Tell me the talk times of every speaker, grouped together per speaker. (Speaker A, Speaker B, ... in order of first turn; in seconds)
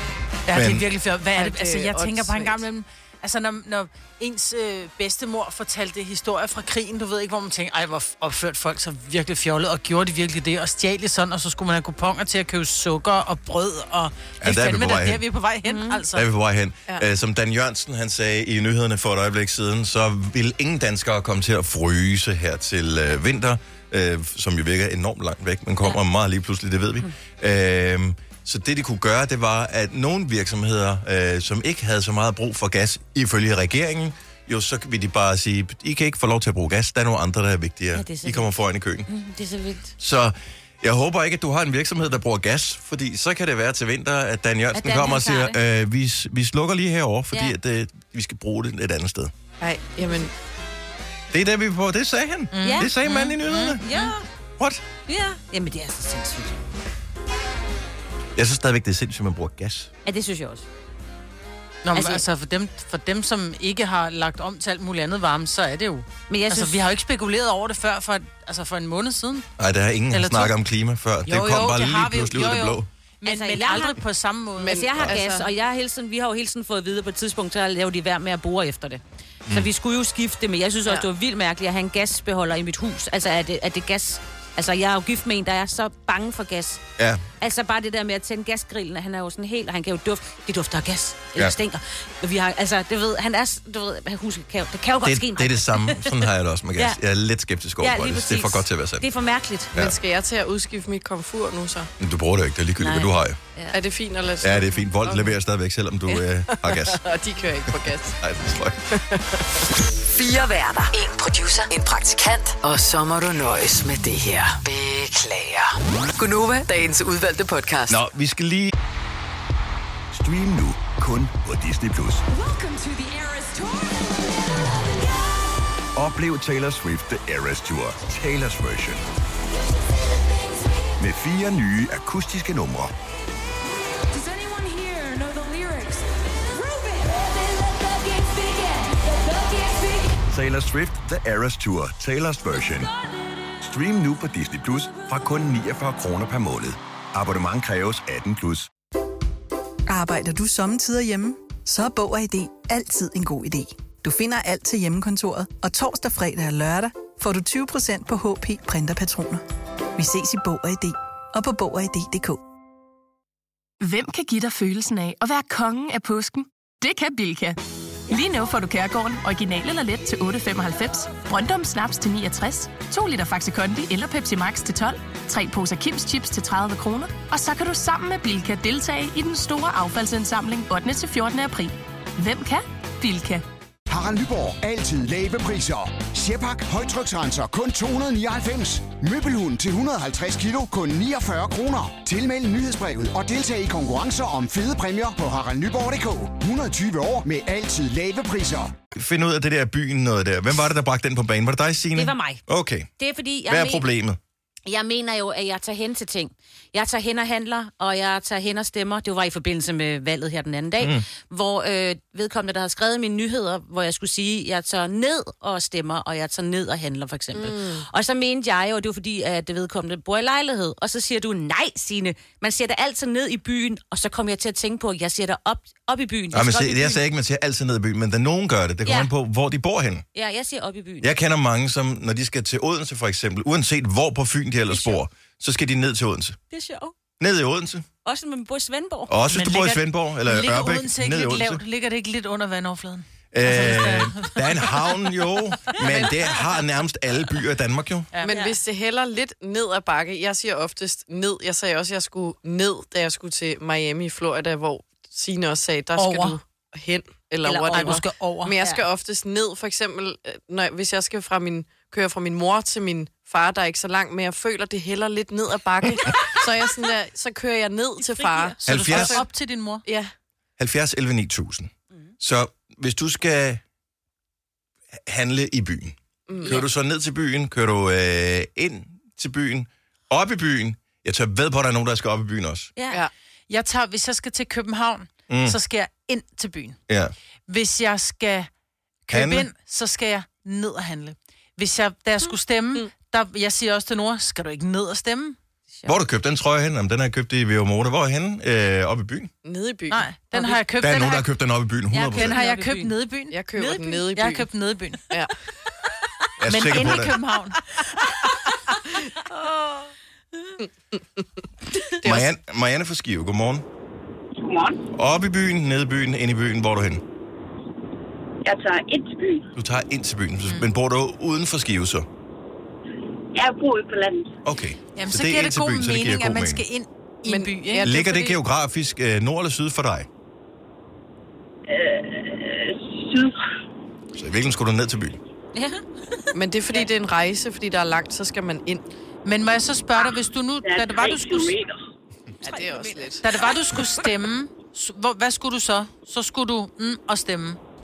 Speaker A: 0.5-16.3, 52.5-52.9, 53.5-54.1, 61.8-69.5, 70.1-70.5, 71.3-75.0, 239.3-244.7, 245.7-246.1, 256.0-256.4, 257.7-258.6, 268.4-269.9, 283.5-286.8, 287.5-288.5, 289.1-295.4, 299.9-301.3, 302.1-305.1, 306.5-307.6, 324.9-328.2, 339.2-341.6, 343.2-347.6
Speaker B: 0.5-0.9, 14.4-15.2, 16.1-39.1, 40.0-49.3, 51.3-53.9, 58.4-59.9, 69.6-72.9, 87.0-87.2, 95.0-99.1, 102.0-103.4, 104.4-107.0, 108.2-108.9, 117.9-118.7, 198.9-202.9, 203.5-204.2, 210.8-211.1, 226.3-230.1, 231.0-236.4, 237.2-237.8, 239.1-241.6, 243.3-248.1, 268.6-269.2, 270.6-273.6, 275.1-282.7, 285.3-285.6, 289.1-289.5, 295.9-299.3, 300.8-302.4, 306.4-307.2, 312.0-313.6, 314.9-317.0, 319.6-322.1, 324.4-326.6, 327.8-330.1, 334.1-335.2
Speaker C: 1.4-2.6, 49.6-50.3, 74.6-75.5, 99.8-101.9, 103.7-105.4, 106.1-108.2, 108.9-109.7, 217.3-217.9, 248.2-269.3, 269.9-270.1, 276.3-276.7, 299.4-300.6, 303.3-304.5, 309.3-309.9, 311.9-312.3, 327.2-328.4, 336.3-338.8, 342.4-343.2
Speaker D: 15.7-16.0, 37.9-38.5, 39.1-39.9, 44.7-45.6, 52.6-54.2, 55.1-56.6, 60.1-60.7, 62.0-62.2, 66.3-66.8, 73.2-74.0, 74.7-86.8, 87.4-96.2, 97.8-99.8, 102.8-103.8, 201.9-202.4, 203.0-203.9, 204.7-227.0, 228.8-229.1, 230.1-231.1, 234.7-235.0, 236.5-237.0, 238.1-239.1, 248.3-248.6, 257.4-258.1, 268.2-268.5, 282.8-283.0, 301.9-302.9, 335.5-336.2, 342.4-343.1
Speaker E: 110.1-118.0
Speaker F: 120.1-122.2, 126.0-129.0, 131.0-132.9, 140.3-142.9, 143.6-148.7
Speaker G: 122.3-125.7, 134.0-140.2
Speaker H: 149.9-159.4, 160.0-162.4
Speaker I: 163.8-183.4
Speaker J: 183.9-198.8
Speaker K: 314.4-314.8, 318.5-319.4, 323.4-324.3, 331.7-333.3, 340.6-341.8